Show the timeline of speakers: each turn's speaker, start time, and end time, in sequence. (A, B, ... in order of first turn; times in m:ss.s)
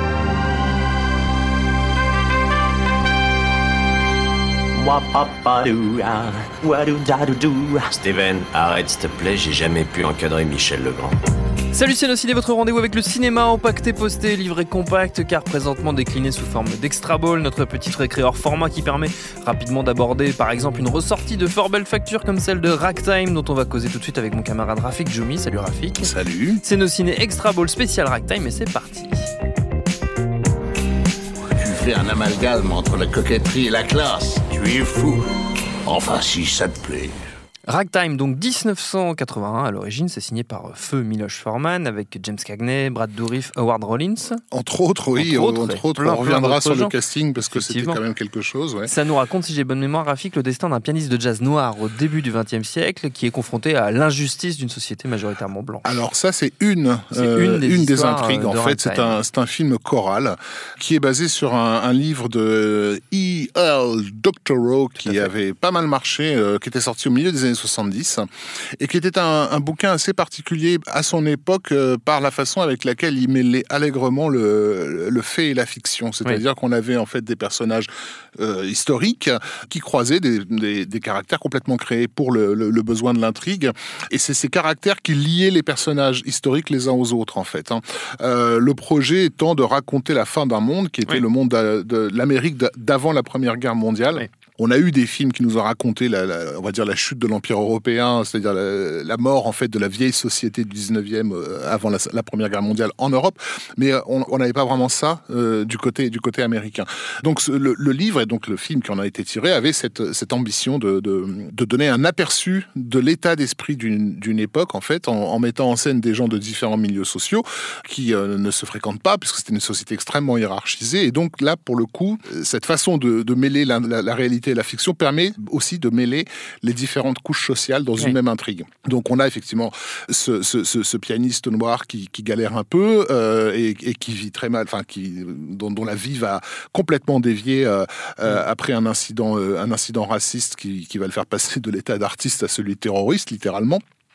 0:04.8-0:06.9 A
0:07.4-0:11.2 A
0:11.7-0:29.3 B
0:26.1-0:26.4 C
0:31.6-0:35.2 C
0:35.8-0:37.1 C
0:37.7-0:44.4 B
0:44.5-0:48.9 D
0:45.2-0:48.0 B
0:48.8-0:56.0 B
0:55.8-1:08.2 D
0:57.1-0:59.2 B
1:08.8-2:23.8 D